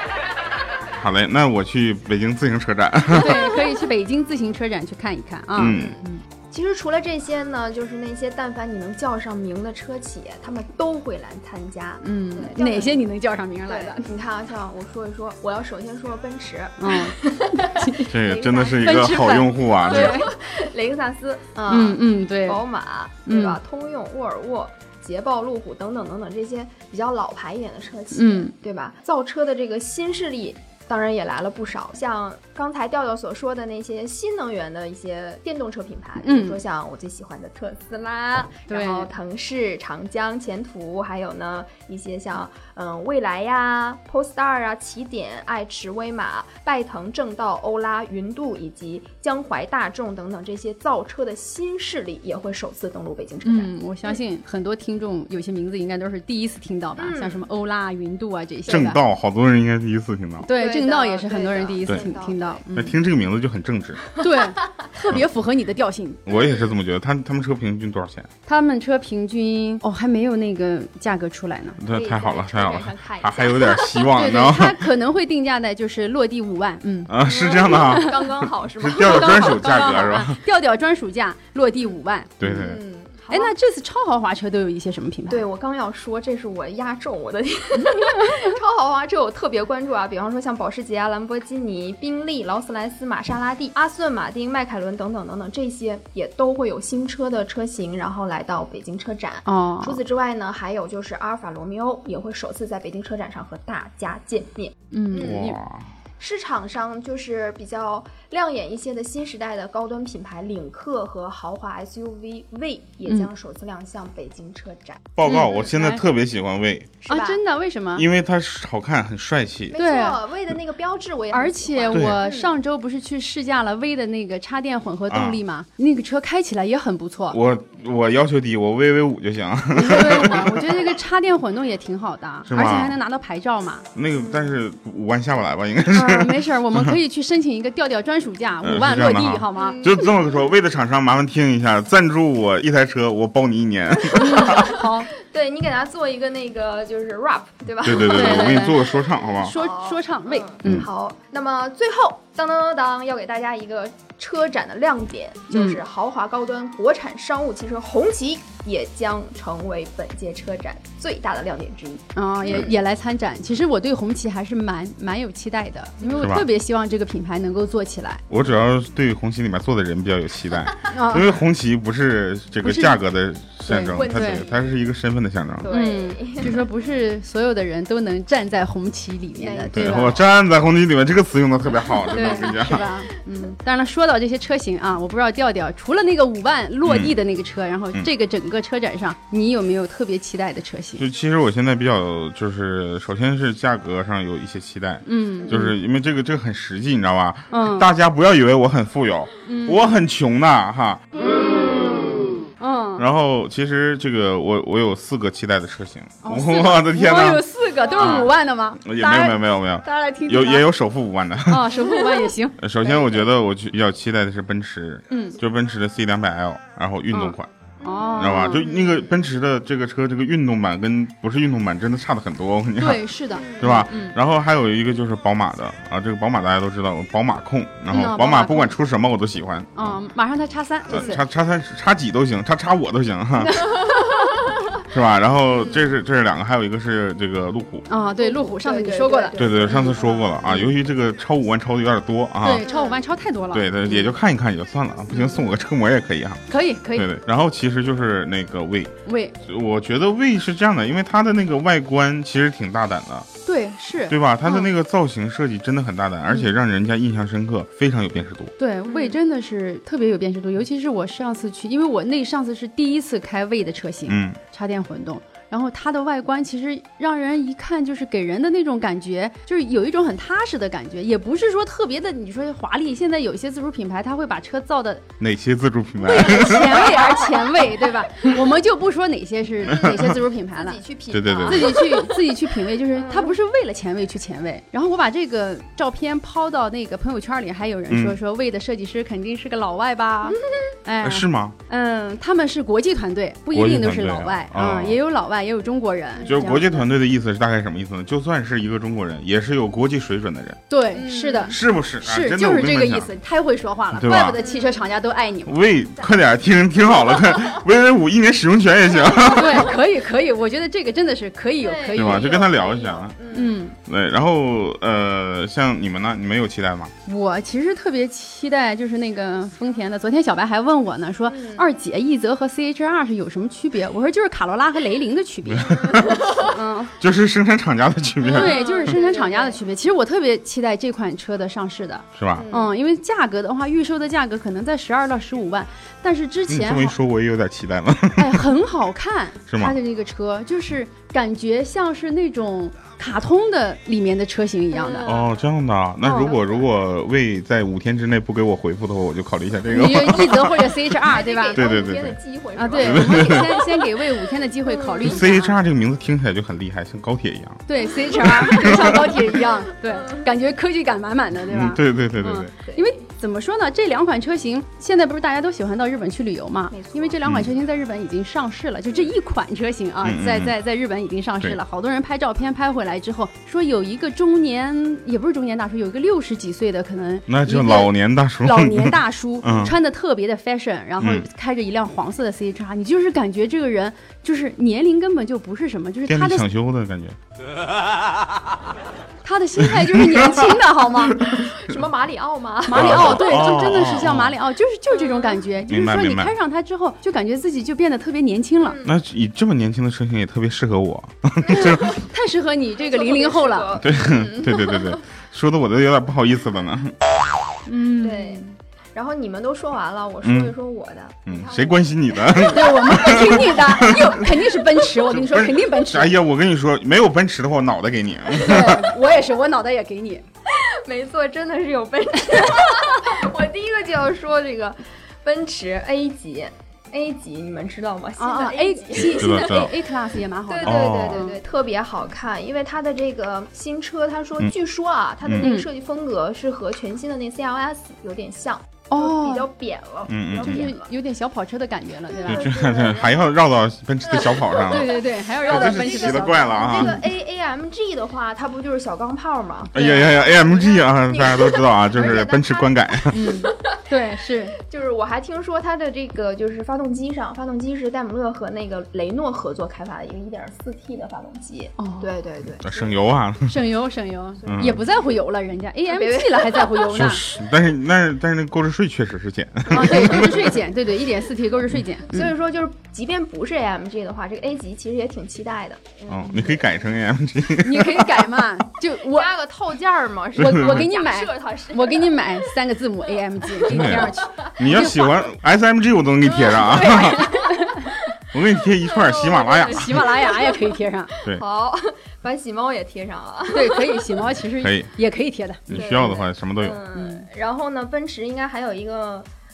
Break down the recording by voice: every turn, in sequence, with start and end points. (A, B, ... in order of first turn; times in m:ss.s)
0:01.0-0:03.5 A
0:03.1-0:06.2 B
0:05.6-0:06.0 A
0:05.7-0:06.0 C
0:06.5-0:13.1 C
0:12.0-0:14.1 B
0:13.7-0:54.2 C
0:16.8-0:18.1 B
0:18.0-0:20.2 A
0:18.8-0:20.3 B
0:21.7-0:22.6 B
0:23.3-0:23.6 B
0:28.1-0:28.5 B
0:36.2-0:36.6 B
0:38.7-0:39.1 B
0:53.4-0:59.0 B
0:57.0-0:57.4 C
0:58.7-1:00.5 A
1:00.4-1:03.0 B
1:00.5-1:02.6 C
1:02.7-1:04.0 A
1:04.2-1:06.2 B
1:06.3-1:08.3 A
1:06.3-1:06.7 C
1:08.5-1:11.8 B
1:11.8-1:14.8 A
1:11.8-1:14.2 C
1:14.2-1:18.3 B
1:17.1-1:20.4 A
1:17.2-1:19.8 C
1:19.0-1:22.6 B
1:22.4-1:22.8 A
1:22.4-1:23.5 C
1:23.3-1:25.4 B
1:25.3-1:45.5 C
1:27.8-1:28.5 B
1:39.5-1:40.0 B
1:44.9-1:45.6 B
1:45.2-1:45.9 A
1:46.2-1:55.6 C
1:55.2-1:57.0 A
1:55.2-1:56.0 B
1:57.0-1:57.4 C
1:57.1-1:58.1 B
1:58.0-1:59.8 A
1:59.7-2:02.5 C
1:59.8-2:00.2 B
2:01.3-2:07.4 B
2:01.9-2:02.2 A
2:05.1-2:05.4 A
2:07.3-2:10.9 A
2:09.7-2:13.9 B
2:12.5-2:13.0 A
2:14.0-2:17.0 A
2:14.1-2:14.6 C
2:15.9-2:19.8 B
2:18.6-2:24.7 A
2:19.6-2:20.3 C
2:24.1-2:25.1 B
2:24.2-2:42.8 C
2:27.8-2:29.6 A
2:28.1-2:30.9 B
2:35.5-2:35.8 B
2:42.2-2:48.2 B
2:46.0-2:46.4 C
2:46.2-2:46.5 A
2:48.3-2:55.7 A
2:50.9-2:51.4 B
2:52.6-2:53.0 B
2:53.6-2:54.4 B
2:53.9-2:54.7 C
2:55.6-2:56.7 C
2:55.7-3:00.2 B
2:59.4-3:00.2 C
2:59.7-3:02.8 A
3:02.0-3:02.6 C
3:02.1-3:11.0 B
3:06.8-3:07.2 A
3:11.0-3:21.0 A
3:15.1-3:15.8 B
3:17.5-3:17.9 B
3:19.5-3:19.9 B
3:22.6-3:23.1 B
3:23.0-3:27.5 A
3:26.2-3:30.7 B
3:27.8-3:28.3 C
3:28.0-3:31.7 A
3:31.5-3:32.6 B
3:32.6-3:37.5 A
3:32.8-3:33.2 C
3:35.1-3:35.4 B
3:37.1-3:38.7 B
3:37.8-3:39.0 C
3:38.1-3:43.1 A
3:42.8-3:44.2 B
3:43.3-3:43.8 C
3:43.6-3:50.0 A
3:47.9-3:48.8 B
3:49.8-3:51.2 B
3:50.9-3:53.7 A
3:53.4-3:54.4 B
3:54.9-3:57.8 A
3:55.6-3:55.9 C
3:57.9-4:00.7 B
3:58.2-4:00.4 C
3:59.4-4:02.6 A
4:02.4-4:04.2 B
4:02.6-4:03.0 C
4:03.5-4:13.3 A
4:05.1-4:05.4 B
4:06.5-4:07.1 B
4:09.1-4:09.4 B
4:13.5-4:14.7 B
4:14.1-4:18.5 A
4:18.6-4:35.0 B
4:18.9-4:19.2 C
4:24.1-4:24.4 A
4:35.2-4:37.0 A
4:36.0-4:40.8 B
4:36.6-4:37.4 C
4:39.7-4:42.4 C
4:39.7-4:40.1 A
4:41.1-4:41.8 A
4:41.5-4:56.8 B
4:42.9-4:43.4 C
4:47.9-4:48.2 A
4:50.3-4:50.7 C
4:51.0-4:51.6 A
4:53.5-4:55.0 A
4:56.2-4:56.5 C
4:56.3-5:00.6 A
5:00.7-5:05.6 B
5:00.9-5:01.6 C
5:01.5-5:03.1 A
5:03.9-5:04.4 A
5:04.3-5:04.9 C
5:05.5-5:09.7 A
5:07.1-5:07.6 C
5:09.0-5:09.6 C
5:09.3-5:12.4 B
5:11.6-5:13.6 C
5:11.9-5:13.2 A
5:13.3-5:13.8 B
5:13.8-5:16.9 A
5:17.1-5:26.9 B
5:21.3-5:21.7 C
5:25.5-5:26.4 A
5:25.7-5:26.5 C
5:27.0-5:28.6 A
5:28.2-5:29.6 C
5:28.3-5:37.0 B
5:32.2-5:32.5 A
5:32.4-5:32.7 C
5:36.5-5:38.5 A
5:38.2-5:45.1 B
5:39.5-5:39.8 A
5:44.7-5:45.5 C
5:45.0-5:50.7 A
5:46.0-5:46.3 B
5:46.1-5:46.7 C
5:49.7-5:51.6 B
5:51.0-5:53.9 C
5:51.6-5:52.2 A
5:52.6-5:55.6 B
5:52.8-5:53.5 A
5:54.6-5:55.2 C
5:55.0-5:59.2 A
5:57.7-6:26.5 B
5:58.5-6:00.3 C
6:01.5-6:02.5 A
6:02.6-6:02.9 C
6:06.7-6:07.2 C
6:07.2-6:07.5 A
6:10.0-6:10.5 A
6:17.3-6:19.8 A
6:21.0-6:21.3 A
6:26.1-6:27.2 A
6:29.2-6:31.2 B
6:29.7-6:30.6 A
6:31.2-6:33.5 C
6:31.2-6:31.4 A
6:32.7-6:38.8 B
6:32.7-6:34.4 A
6:34.9-6:35.4 C
6:35.7-6:36.4 A
6:38.6-6:39.0 C
6:38.8-6:42.0 A
6:41.5-6:43.8 B
6:42.8-6:45.0 C
6:43.8-6:47.0 A
6:47.7-6:48.6 B
6:48.0-6:48.4 C
6:49.0-6:54.1 C
6:50.2-6:50.6 A
6:51.3-6:54.3 A
6:52.4-6:56.1 B
6:55.1-6:58.9 A
6:58.4-7:00.2 B
7:00.5-7:09.7 C
7:08.2-7:11.4 B
7:09.0-7:09.7 A
7:10.5-7:20.9 C
7:10.6-7:11.2 A
7:15.2-7:15.5 A
7:15.4-7:15.7 B
7:18.9-7:19.5 B
7:20.1-7:20.7 A
7:20.4-7:22.5 B
7:22.1-7:23.3 C
7:22.3-7:27.0 A
7:24.1-7:33.8 C
7:24.6-7:27.1 B
7:29.7-7:33.3 A
7:32.0-7:32.2 B
7:33.1-7:34.6 B
7:34.6-7:43.0 C
7:41.8-7:42.1 B
7:42.6-7:43.6 A
7:43.5-7:47.2 B
7:44.4-7:45.1 C
7:44.5-7:44.8 A
7:45.9-7:47.0 C
7:46.9-7:50.5 A
7:49.7-7:52.3 B
7:49.8-7:50.3 C
7:52.1-7:56.6 C
7:56.1-7:58.4 A
7:57.6-7:59.3 B
7:59.0-8:02.5 C
8:00.4-8:05.2 B
8:00.4-8:00.8 A
8:03.4-8:05.1 C
8:03.7-8:07.3 A
8:06.3-8:08.1 C
8:06.7-8:07.9 B
8:08.3-8:10.1 A
8:08.8-8:14.2 C
8:09.7-8:11.1 B
8:13.5-8:16.3 B
8:14.5-8:14.9 A
8:15.7-8:16.8 A
8:15.7-8:19.3 C
8:16.9-8:17.3 B